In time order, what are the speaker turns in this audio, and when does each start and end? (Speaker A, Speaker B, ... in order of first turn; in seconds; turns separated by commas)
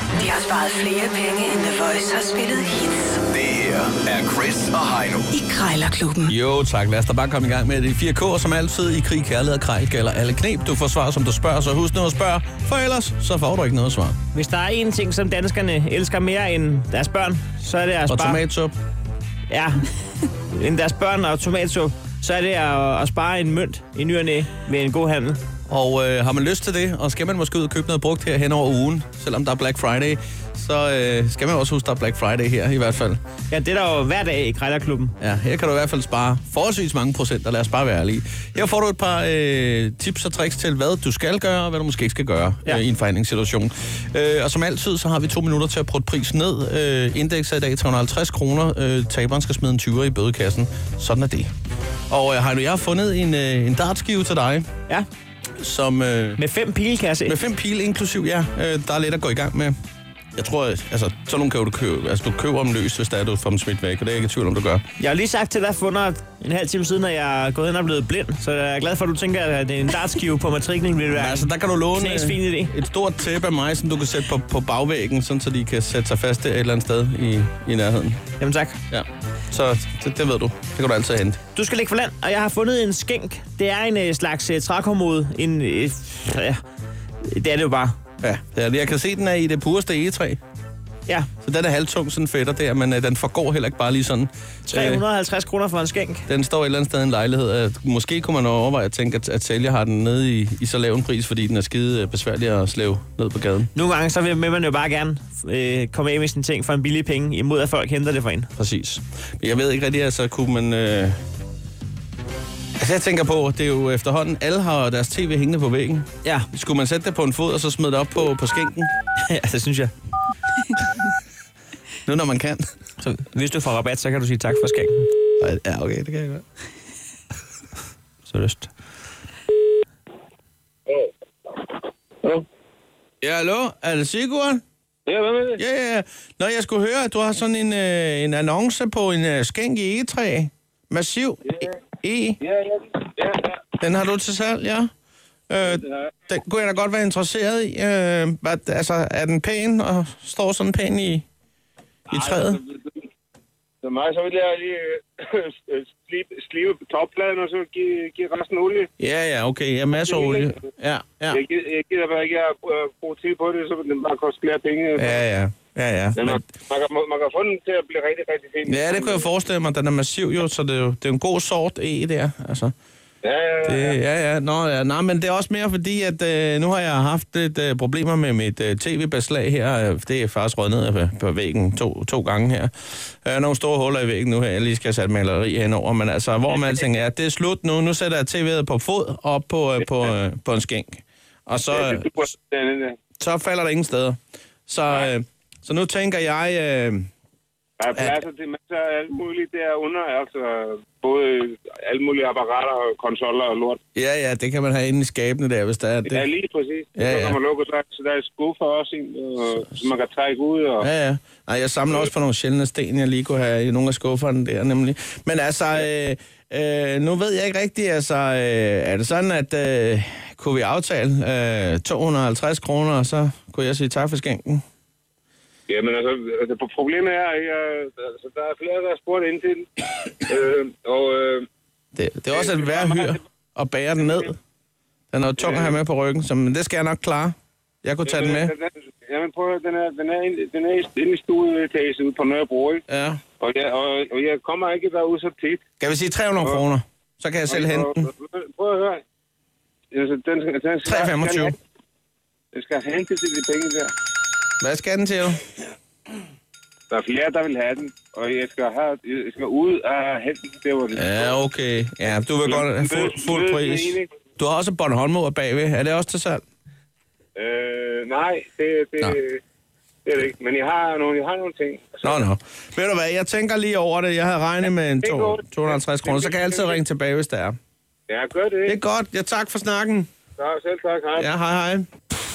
Speaker A: 0.2-3.1, Speaker B: 3.3-5.4, Speaker A: 5.3-6.3, Speaker C: 6.2-14.2, Speaker D: 14.3-18.4, Speaker C: 18.1-18.7, Speaker D: 19.5-19.9, Speaker D: 20.5-25.4, Speaker C: 25.7-33.2, Speaker D: 33.5-35.1, Speaker C: 35.2-51.5, Speaker C: 52.1-54.7, Speaker C: 55.6-56.4, Speaker D: 56.4-57.4, Speaker C: 57.3-59.7, Speaker C: 60.4-64.8, Speaker D: 65.0-72.7, Speaker C: 71.2-78.2, Speaker D: 78.4-78.8, Speaker C: 78.9-81.4, Speaker D: 81.5-86.6, Speaker D: 87.2-88.0, Speaker C: 88.2-90.4, Speaker C: 91.4-95.0, Speaker D: 94.7-96.3, Speaker C: 96.3-103.7, Speaker D: 103.7-108.5, Speaker C: 108.6-111.2, Speaker C: 112.8-118.9, Speaker D: 116.2-116.5, Speaker D: 119.3-119.9, Speaker C: 122.0-122.7, Speaker D: 123.0-125.1, Speaker C: 125.4-126.4, Speaker D: 128.3-128.7, Speaker C: 133.2-134.6, Speaker E: 135.1-135.6, Speaker C: 135.6-142.4, Speaker E: 142.4-143.6, Speaker C: 143.8-144.9, Speaker C: 145.5-151.2, Speaker E: 145.6-146.1, Speaker C: 152.1-152.6, Speaker E: 152.1-153.1, Speaker E: 153.8-158.9, Speaker C: 159.0-161.4, Speaker E: 160.0-160.6, Speaker E: 161.3-165.2, Speaker C: 165.0-166.4, Speaker E: 166.2-169.2, Speaker C: 168.7-172.7, Speaker E: 173.2-174.0, Speaker C: 173.7-192.1, Speaker E: 191.7-193.0, Speaker C: 193.2-197.1, Speaker E: 197.8-203.8, Speaker C: 203.9-206.3, Speaker E: 206.1-210.9, Speaker C: 207.0-207.4, Speaker C: 210.8-224.6, Speaker E: 225.7-231.5, Speaker C: 231.9-234.4, Speaker E: 232.3-233.2, Speaker C: 235.1-238.5, Speaker E: 235.4-235.7, Speaker E: 238.1-242.8, Speaker C: 242.9-243.2, Speaker E: 243.4-245.6, Speaker C: 245.8-248.0, Speaker E: 247.5-249.0, Speaker E: 249.9-251.6, Speaker C: 250.8-251.5, Speaker E: 252.5-253.9, Speaker C: 254.6-255.5, Speaker E: 256.9-261.3, Speaker C: 260.9-266.4, Speaker E: 262.5-264.1, Speaker E: 267.4-269.4, Speaker E: 270.1-272.2, Speaker C: 272.0-277.6, Speaker E: 275.0-276.8, Speaker E: 278.1-278.8, Speaker C: 278.6-280.1, Speaker E: 280.4-281.3, Speaker C: 281.2-281.9